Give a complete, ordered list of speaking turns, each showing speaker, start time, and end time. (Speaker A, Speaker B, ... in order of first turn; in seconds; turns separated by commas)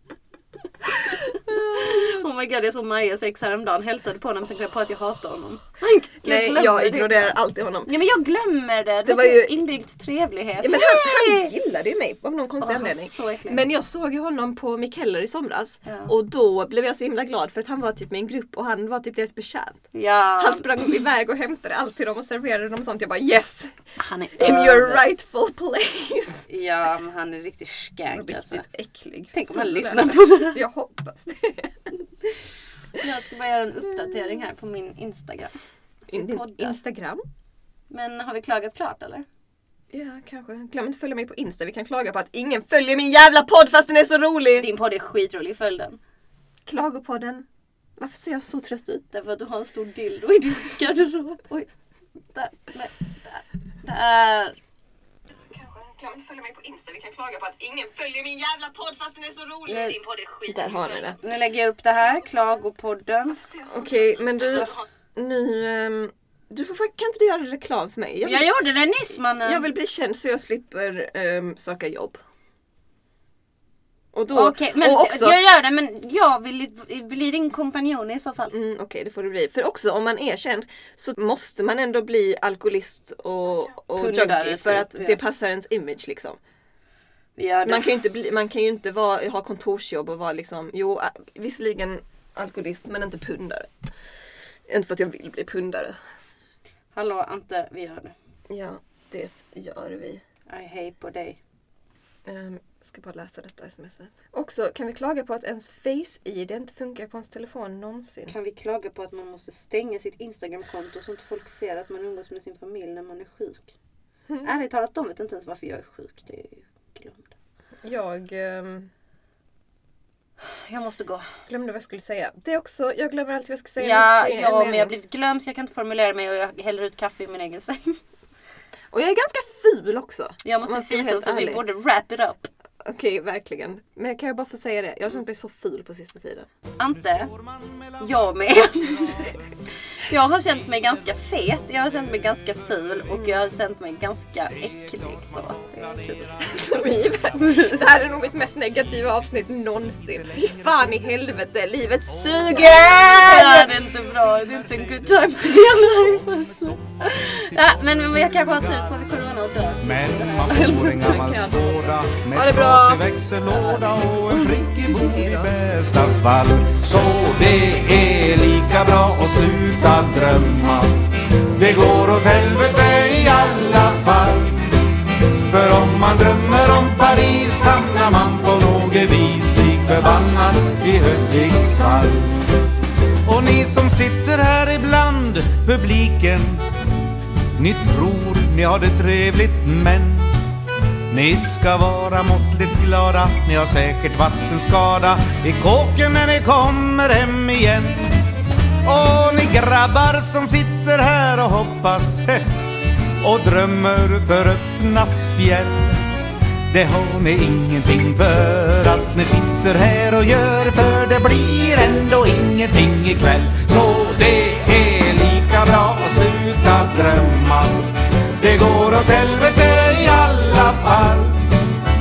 Speaker A: 0.9-11.5, Speaker B: 1.3-2.2, Speaker B: 6.2-7.9, Speaker B: 9.0-9.5, Speaker B: 10.6-19.8, Speaker A: 12.6-13.6, Speaker A: 15.8-16.1, Speaker A: 19.9-20.7, Speaker B: 20.4-23.8, Speaker A: 24.0-25.1, Speaker B: 24.4-26.4, Speaker A: 26.5-28.6, Speaker B: 28.1-31.8, Speaker A: 29.3-30.6, Speaker A: 33.0-35.5, Speaker A: 36.1-36.8, Speaker B: 36.1-37.2, Speaker A: 37.9-39.2, Speaker B: 39.9-44.7, Speaker A: 44.6-46.0, Speaker B: 46.6-47.5, Speaker B: 48.0-49.0, Speaker A: 49.1-51.7, Speaker A: 52.3-54.6, Speaker B: 55.3-61.2, Speaker A: 59.6-60.0, Speaker A: 61.2-63.6, Speaker B: 63.3-68.5, Speaker A: 68.2-69.7, Speaker B: 69.4-72.2, Speaker B: 74.1-75.4, Speaker A: 74.3-78.5, Speaker B: 78.5-86.4, Speaker A: 84.0-85.2, Speaker A: 87.4-88.0, Speaker B: 87.6-93.7, Speaker B: 94.7-96.0, Speaker A: 96.9-98.1, Speaker B: 98.5-100.2, Speaker A: 100.5-101.4, Speaker B: 102.2-108.3, Speaker A: 108.3-113.7, Speaker A: 114.4-117.3, Speaker B: 117.8-118.9, Speaker A: 120.5-121.3, Speaker B: 121.5-124.9, Speaker A: 123.8-128.0, Speaker B: 128.9-131.6, Speaker A: 130.4-132.5, Speaker B: 132.8-136.5, Speaker A: 136.8-137.3, Speaker C: 137.0-139.3, Speaker A: 138.0-139.3, Speaker A: 140.0-146.3, Speaker C: 144.7-147.2, Speaker B: 146.4-153.8, Speaker A: 147.2-147.9, Speaker C: 150.3-151.0, Speaker C: 152.2-153.0, Speaker A: 152.7-161.2, Speaker C: 153.6-158.9, Speaker C: 159.8-182.5, Speaker B: 160.8-163.0, Speaker B: 163.6-163.8, Speaker A: 164.3-164.6, Speaker B: 164.5-165.6, Speaker C: 183.2-186.6, Speaker C: 187.6-190.4, Speaker C: 191.1-198.1, Speaker C: 198.8-202.6, Speaker C: 203.2-206.0, Speaker C: 206.7-221.6